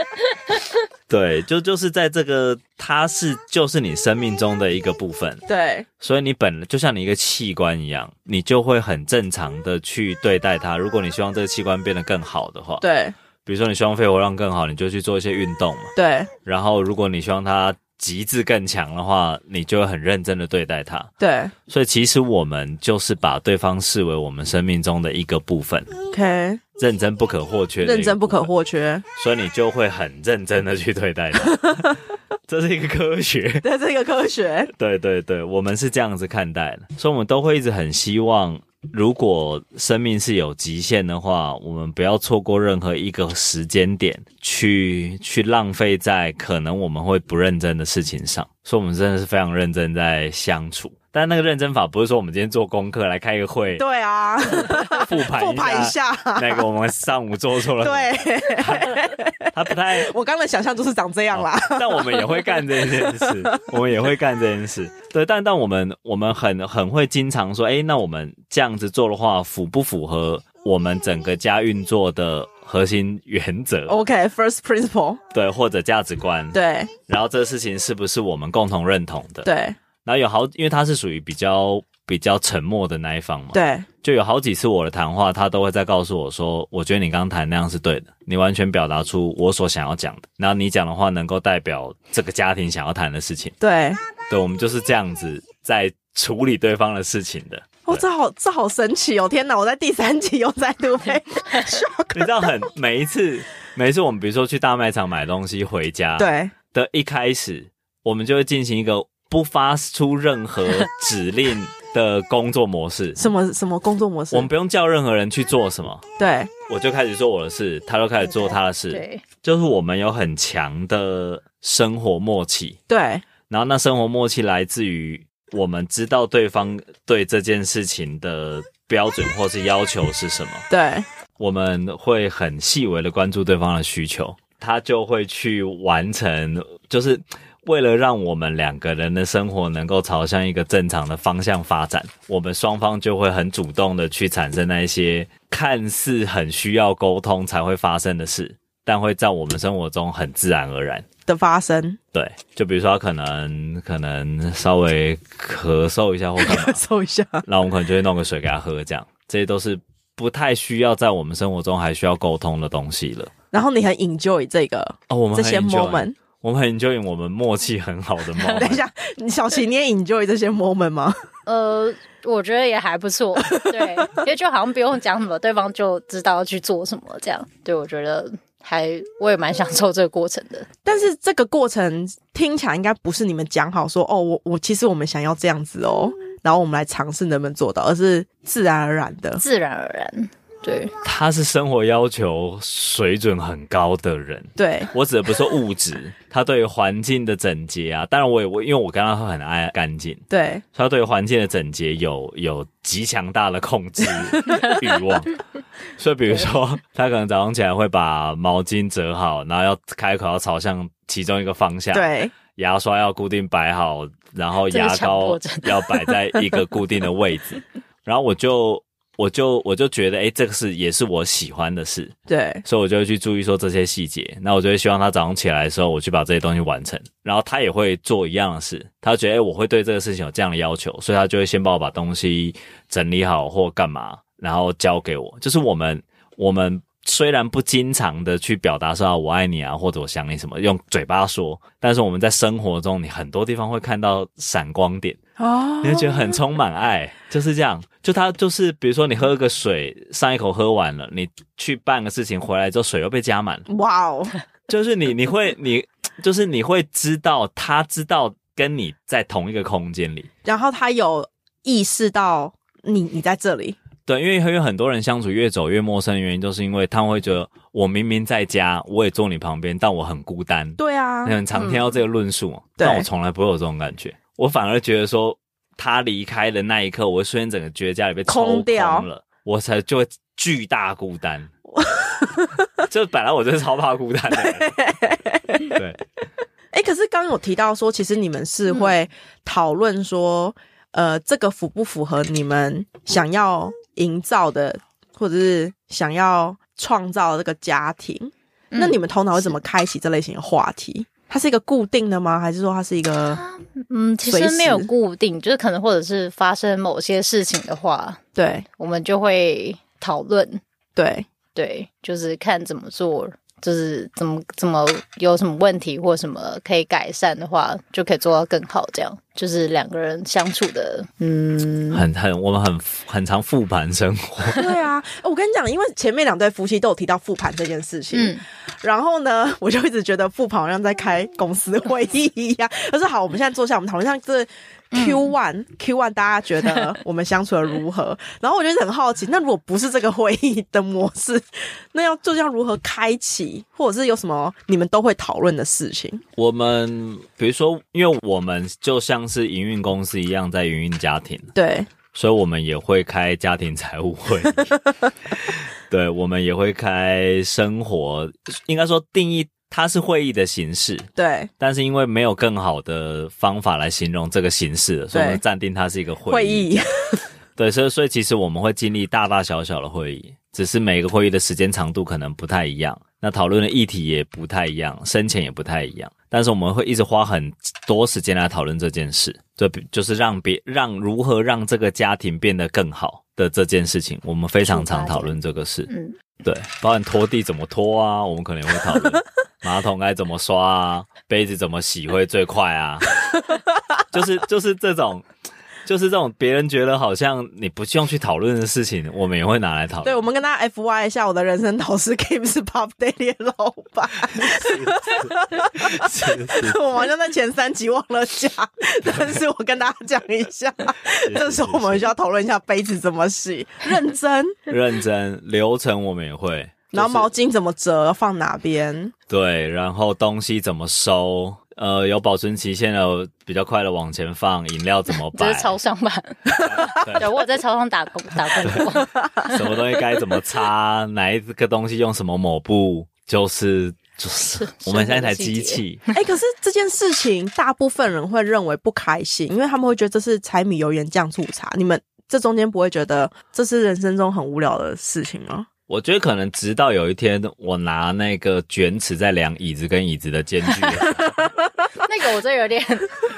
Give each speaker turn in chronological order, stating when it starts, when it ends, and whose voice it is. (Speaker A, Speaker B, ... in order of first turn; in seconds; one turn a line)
Speaker A: 1.1-5.4
Speaker B: 5.5-5.9
Speaker A: 6.0-12.8
Speaker B: 12.8-13.2
Speaker A: 13.4-15.9
Speaker B: 16.0-16.3
Speaker A: 16.4-21.1
Speaker B: 21.2-21.5
Speaker A: 21.7-25.9
Speaker B: 26.1-26.6
Speaker A: 26.8-28.5
Speaker B: 27.8-29.0
Speaker A: 29.2-33.6
Speaker B: 33.6-34.7
Speaker A: 34.7-53.8
Speaker B: 53.8-56.7
Speaker A: 54.6-60.1
Speaker B: 57.8-63.6
Speaker A: 61.3-74.0
Speaker B: 73.9-75.2
Speaker A: 75.3-79.5
Speaker B: 76.5-76.9
Speaker B: 79.4-79.8
Speaker A: 80.0-93.5
Speaker B: 83.5-83.9
Speaker B: 93.6-94.0
Speaker A: 94.3-98.0
Speaker B: 97.8-102.5
Speaker A: 102.1-113.2
Speaker B: 106.2-106.5
Speaker B: 113.2-114.5
Speaker A: 114.3-116.0
Speaker B: 116.2-116.5
Speaker A: 116.7-122.8
Speaker C: 118.9-119.2
Speaker B: 122.9-123.2
Speaker A: 123.5-130.7
Speaker B: 130.7-131.1
Speaker A: 131.4-151.1
Speaker B: 151.3-152.0
Speaker A: 152.1-156.8
Speaker B: 156.4-157.4
Speaker A: 157.5-163.3
Speaker B: 163.5-166.2
Speaker A: 165.1-168.8
Speaker B: 168.6-171.2
Speaker C: 171.5-180.7
Speaker B: 180.8-189.4
Speaker C: 189.4-190.9
Speaker A: 191.0-205.4
Speaker B: 194.6-194.9
Speaker B: 200.3-200.6
Speaker A: 206.0-222.1
Speaker B: 211.9-212.3
Speaker C: 214.7-216.1
Speaker B: 222.3-222.6
Speaker A: 222.7-245.2
Speaker B: 245.4-246.3
Speaker A: 245.8-253.7
Speaker B: 253.7-254.3
Speaker A: 254.7-260.3
Speaker B: 260.4-263.8
Speaker A: 264.1-281.5
Speaker B: 270.8-271.4
Speaker C: 271.6-271.9
Speaker B: 272.8-273.1
Speaker B: 278.3-279.1
Speaker B: 281.8-282.6
Speaker A: 282.9-284.8
Speaker B: 284.3-285.8
Speaker A: 285.8-286.0
Speaker B: 286.7-303.4
Speaker C: 298.7-299.6
Speaker C: 303.3-308.2
Speaker B: 304.3-304.9
Speaker B: 308.4-308.7
Speaker C: 308.8-310.6
Speaker B: 311.0-311.3
Speaker C: 311.6-322.0
Speaker A: 321.9-324.6
Speaker B: 324.6-346.2
Speaker C: 328.1-328.4
Speaker C: 334.9-335.3
Speaker A: 346.4-351.5
Speaker B: 351.5-351.9
Speaker A: 352.1-354.8
Speaker A: 355.3-366.7
Speaker B: 361.2-361.5
Speaker B: 365.1-365.4
Speaker B: 366.3-367.2
Speaker A: 367.6-385.9
Speaker C: 384.7-385.4
Speaker C: 385.9-386.2
Speaker A: 386.4-393.1
Speaker A: 394.1-395.3
Speaker A: 395.9-400.2
Speaker B: 400.0-414.6
Speaker A: 404.3-406.8
Speaker A: 411.3-412.1
Speaker A: 414.7-417.3
Speaker B: 416.9-419.1
Speaker A: 419.3-425.8
Speaker C: 425.1-429.6
Speaker A: 426.6-427.3
Speaker A: 428.6-436.0
Speaker C: 434.5-435.8
Speaker B: 436.1-445.7
Speaker A: 445.9-451.4
Speaker C: 452.0-453.2